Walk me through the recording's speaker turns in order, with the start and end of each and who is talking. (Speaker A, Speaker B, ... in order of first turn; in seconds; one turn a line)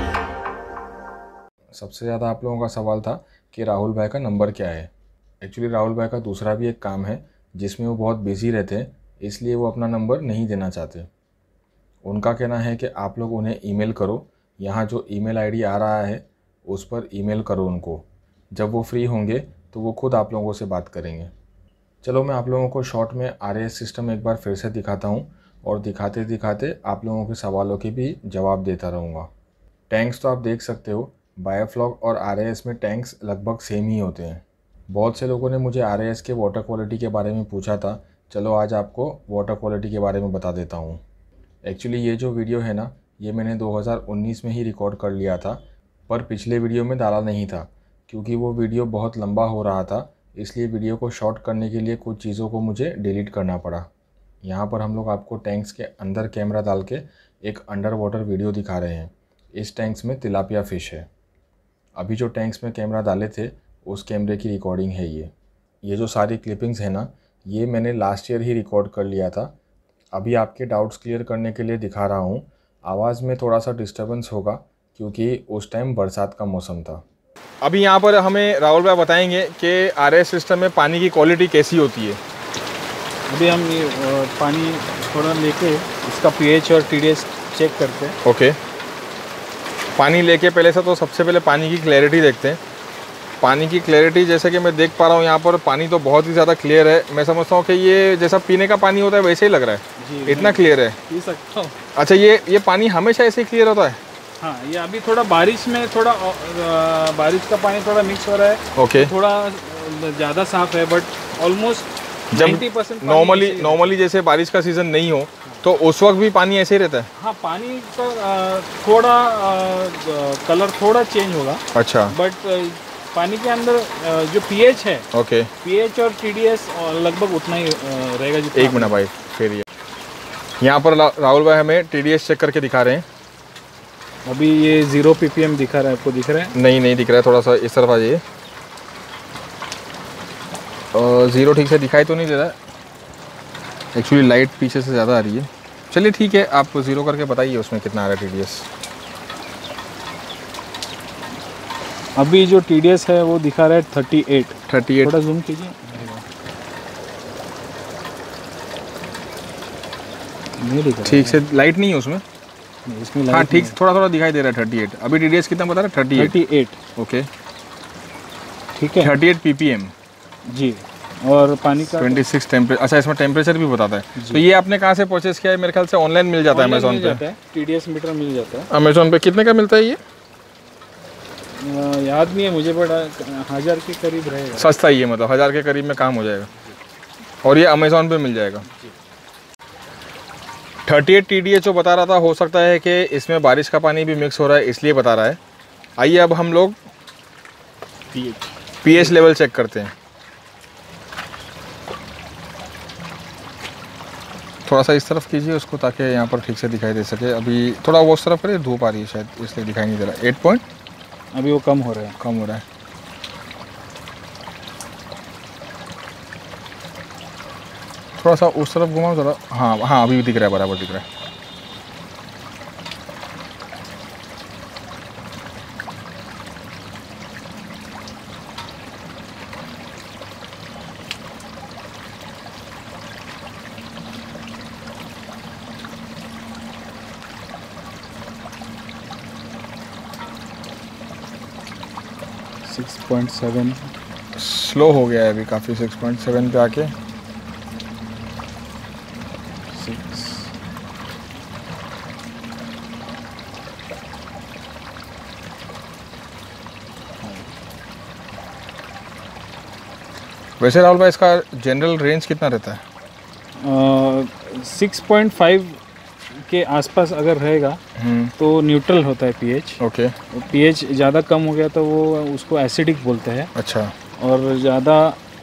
Speaker A: 1.7-11.1
Speaker A: 12.0-21.3
Speaker A: 22.0-29.3
Speaker A: 29.9-41.0
Speaker A: 41.6-53.9
Speaker A: 54.4-61.1
Speaker A: 62.0-65.3
Speaker A: 65.8-69.5
Speaker A: 70.1-77.0
Speaker B: 77.6-82.2
Speaker C: 83.3-88.2
Speaker B: 88.2-88.6
Speaker B: 90.0-92.6
Speaker B: 93.4-101.0
Speaker C: 100.0-101.8
Speaker B: 102.0-104.0
Speaker C: 104.4-114.0
Speaker B: 108.8-109.1
Speaker B: 112.3-117.1
Speaker C: 117.2-125.1
Speaker B: 121.7-122.1
Speaker B: 125.1-125.5
Speaker C: 125.6-128.9
Speaker B: 128.5-129.6
Speaker B: 130.6-133.1
Speaker C: 134.2-136.5
Speaker B: 136.5-138.2
Speaker B: 140.9-142.6
Speaker B: 143.9-148.7
Speaker C: 152.2-156.2
Speaker B: 154.7-155.1
Speaker C: 160.6-161.4
Speaker B: 161.1-162.2
Speaker C: 162.9-163.8
Speaker B: 163.3-166.3
Speaker C: 166.1-166.8
Speaker B: 166.9-167.3
Speaker C: 168.8-169.1
Speaker B: 169.0-169.9
Speaker C: 170.5-172.2
Speaker B: 171.9-177.2
Speaker C: 174.1-174.5
Speaker C: 176.5-178.7
Speaker B: 178.7-180.0
Speaker C: 181.6-184.7
Speaker B: 184.6-186.5
Speaker B: 187.4-188.7
Speaker B: 190.8-195.4
Speaker B: 196.0-196.8
Speaker B: 198.8-199.9
Speaker B: 204.6-210.6
Speaker C: 211.3-212.2
Speaker B: 212.2-212.6
Speaker B: 218.2-221.1
Speaker C: 242.6-243.9
Speaker B: 244.3-246.9
Speaker C: 249.7-250.5
Speaker C: 257.2-257.5
Speaker B: 260.6-262.8
Speaker C: 263.6-265.8
Speaker C: 266.3-267.8
Speaker B: 267.9-268.3
Speaker C: 268.4-269.8
Speaker B: 269.8-270.1
Speaker C: 270.3-273.5
Speaker B: 273.6-273.9
Speaker C: 274.2-275.2